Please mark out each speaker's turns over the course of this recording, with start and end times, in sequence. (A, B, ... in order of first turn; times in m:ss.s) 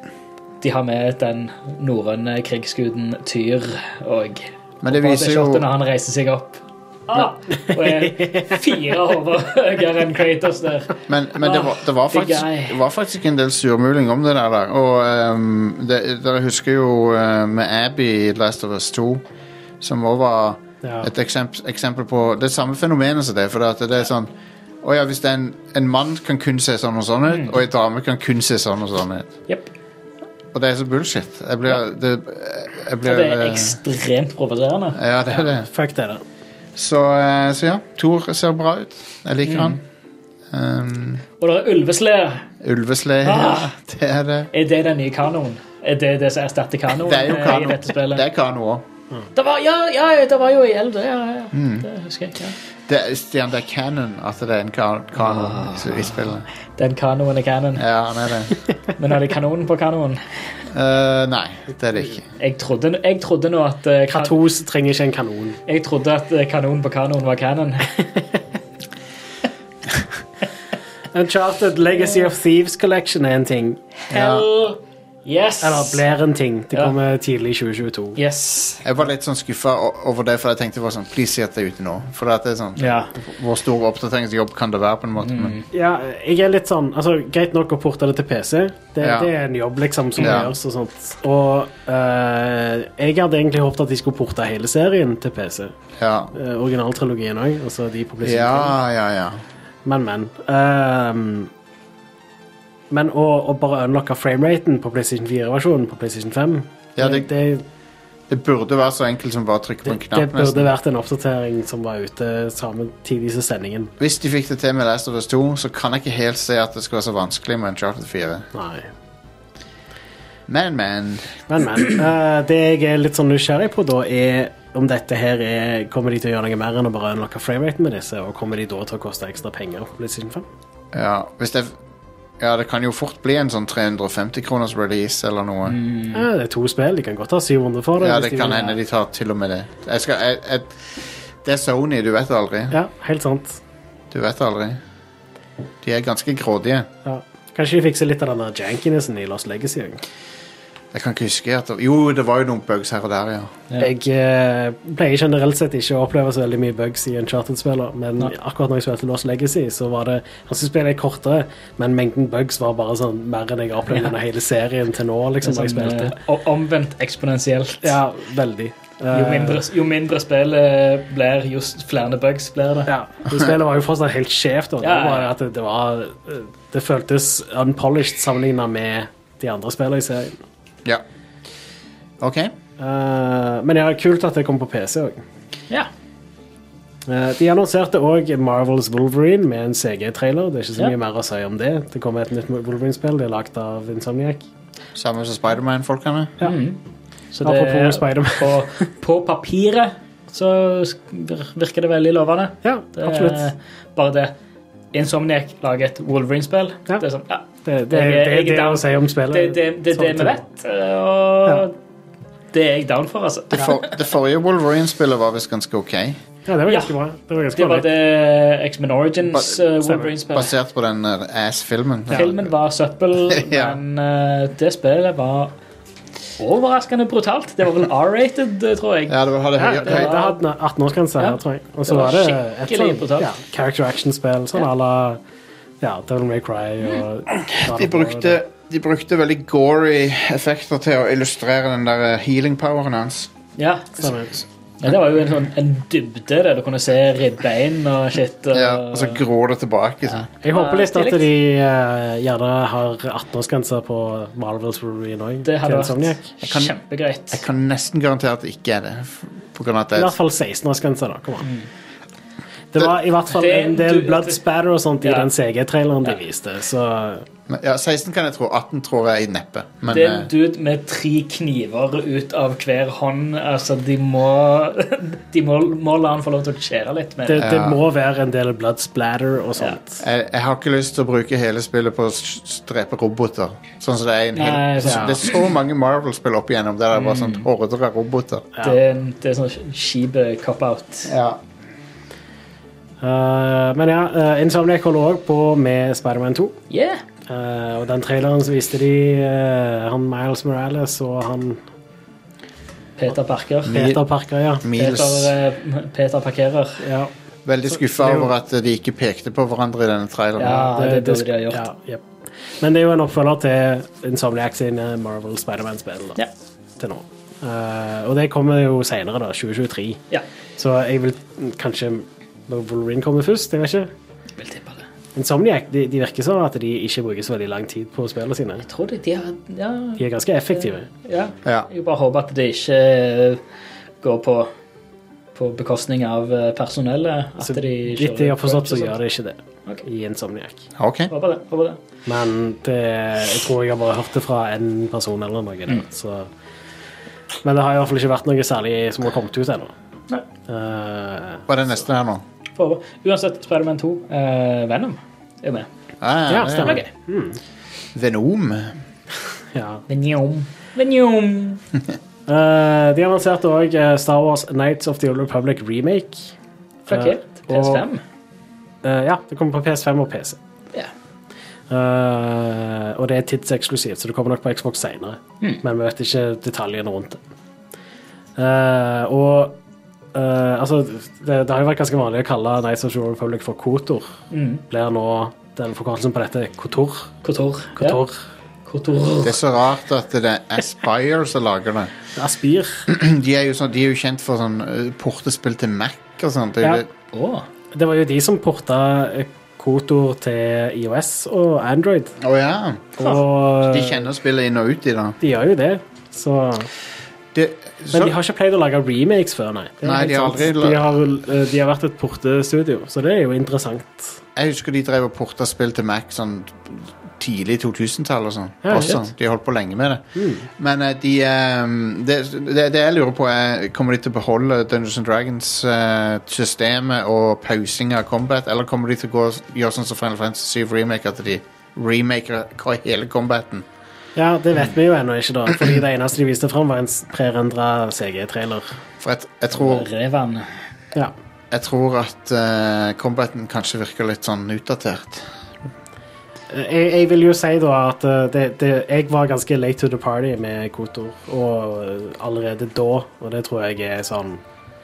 0:00.6-0:12.8 A
0:04.8-0:05.6 B
0:07.6-0:08.6 C
0:11.1-0:19.2 B
0:19.8-0:29.3 B
0:20.8-0:21.1 C
0:27.3-0:27.6 A
0:30.5-0:33.8 B
0:33.0-0:35.0 A
0:34.9-0:35.7 B
0:35.3-0:36.2 C
0:36.8-0:39.8 B
0:39.4-0:39.8 A
0:40.5-0:41.2 B
0:41.4-0:42.5 A
0:42.6-0:44.5 B
0:43.2-0:43.7 A
0:44.5-0:48.2 A
0:47.0-0:48.8 B
0:49.3-0:52.6 A
0:51.5-0:51.9 B
0:52.9-0:56.4 B
0:55.2-0:57.9 A
0:57.8-0:58.5 B
0:59.0-1:00.4 A
1:00.7-1:02.2 B
1:02.4-1:04.3 A
1:04.1-1:05.6 C
1:05.7-1:08.0 A
1:11.1-1:14.0 C
1:14.1-1:14.5 B
1:14.1-1:16.0 A
1:15.6-1:18.2 C
1:18.2-1:18.8 A
1:18.8-1:25.6 B
1:22.8-1:23.1 A
1:25.2-1:25.6 A
1:25.7-1:35.7 C
1:29.0-1:29.3 B
1:30.2-1:30.5 B
1:36.0-1:36.3 B
1:36.3-1:38.8 C
1:38.2-1:39.4 B
1:39.8-1:41.5 C
1:42.9-1:47.6 C
1:47.0-1:47.3 B
1:48.3-1:50.7 B
1:49.8-1:53.9 C
1:54.0-1:58.5 B
1:58.5-1:58.9 C
2:00.5-2:01.4 B
2:01.5-2:10.4 C
2:10.9-2:11.8 B
2:12.4-2:15.8 B
2:15.7-2:16.2 A
2:16.1-2:18.8 C
2:18.0-2:22.8 B
2:22.7-2:23.6 C
2:24.1-2:24.8 B
2:25.8-2:26.9 B
2:27.0-2:30.0 C
2:30.9-2:33.5 B
2:33.8-2:46.2 C
2:45.4-2:48.0 A
2:47.8-2:49.6 C
2:49.1-2:52.9 A
2:52.9-3:00.4 C
2:54.8-2:55.3 A
3:02.2-3:02.5 B
3:02.8-3:05.2 C
3:07.1-3:14.4 C
3:14.9-3:16.4 B
3:16.4-3:16.8 A
3:17.3-3:24.3 A
3:17.4-3:18.6 C
3:22.6-3:23.5 C
3:24.9-3:31.7 A
3:27.6-3:30.4 C
3:32.5-3:34.0 A
3:33.5-3:36.2 B
3:36.4-3:37.9 C
3:36.7-3:36.9 A
3:37.6-3:40.5 A
3:39.3-3:39.6 B
3:39.8-3:40.1 C
3:40.3-3:42.5 B
3:42.1-3:45.5 A
3:43.3-3:43.8 B
3:46.4-3:49.2 A
3:49.1-3:50.1 B
3:49.6-3:55.2 C
3:49.8-3:50.4 A
3:51.2-3:53.3 A
3:55.8-3:58.4 C
3:57.3-4:03.3 B
4:03.6-4:04.1 A
4:04.0-4:04.3 C
4:04.8-4:09.2 A
4:08.5-4:10.2 B
4:10.1-4:11.3 A
4:10.4-4:16.2 C
4:15.4-4:17.4 A
4:16.4-4:16.7 B
4:17.3-4:20.1 B
4:19.9-4:21.5 C
4:22.7-4:27.2 C
4:23.3-4:24.4 A
4:25.0-4:25.3 A
4:27.5-4:30.3 B
4:29.9-4:37.5 A
4:37.3-4:40.0 C
4:37.4-4:37.8 B
4:40.0-4:48.5 B
4:44.3-4:45.5 A
4:44.8-4:45.2 C
4:46.9-4:47.5 A
4:48.6-4:51.1 A
4:51.0-4:51.4 B
4:53.0-4:56.6 C
4:56.7-4:57.0 A
4:57.3-5:01.6 C
5:03.0-5:03.8 A
5:03.6-5:04.0 B
5:03.7-5:04.6 C
5:04.6-5:05.3 B
5:04.8-5:06.8 A
5:06.8-5:07.1 C
5:07.4-5:10.7 B
5:07.7-5:08.3 C
5:10.4-5:11.6 A
5:10.4-5:12.0 C
5:12.6-5:16.2 C
5:16.8-5:20.0 C
5:20.6-5:23.9 C
5:24.4-5:24.8 A
5:25.2-5:28.6 C
5:28.6-5:30.0 A
5:30.0-5:30.9 C
5:30.9-5:33.4 A
5:34.0-5:34.5 A
5:35.3-5:39.0 A
5:37.4-5:40.6 C
5:40.8-5:41.1 B
5:41.1-5:41.8 A
5:42.0-5:46.3 C
5:47.4-5:49.7 C
5:50.5-5:51.5 C
5:51.5-5:52.2 B
5:52.6-5:55.7 A
5:56.0-5:56.8 B
5:56.3-5:57.4 C
5:56.6-5:56.9 A
5:57.9-5:58.8 B
5:59.5-5:59.8 C
5:59.9-6:01.6 A
6:02.3-6:06.3 C
6:06.9-6:08.0 A
6:06.9-6:07.8 C
6:08.8-6:10.4 C
6:11.7-6:17.2 C
6:18.4-6:19.6 C
6:20.1-6:24.1 C
6:24.3-6:24.6 A
6:24.7-6:27.1 C
6:27.2-6:28.0 A
6:27.8-6:28.2 C
6:28.6-6:29.4 A
6:29.2-6:31.9 B
6:32.2-6:32.9 C
6:32.9-6:36.9 B
6:37.1-6:37.5 A
6:37.7-6:42.2 C
6:42.2-6:43.0 B
6:43.0-6:44.0 C
6:43.6-6:45.2 B
6:45.2-6:46.7 C
6:47.3-6:48.1 B
6:47.9-6:54.2 C
6:49.8-6:50.8 B
6:54.4-7:13.6 B
6:58.6-6:59.0 C
7:00.1-7:00.5 C
7:14.2-7:18.8 C
7:19.0-7:19.9 B
7:19.5-7:20.6 A
7:21.5-7:25.3 B
7:26.5-7:34.4 C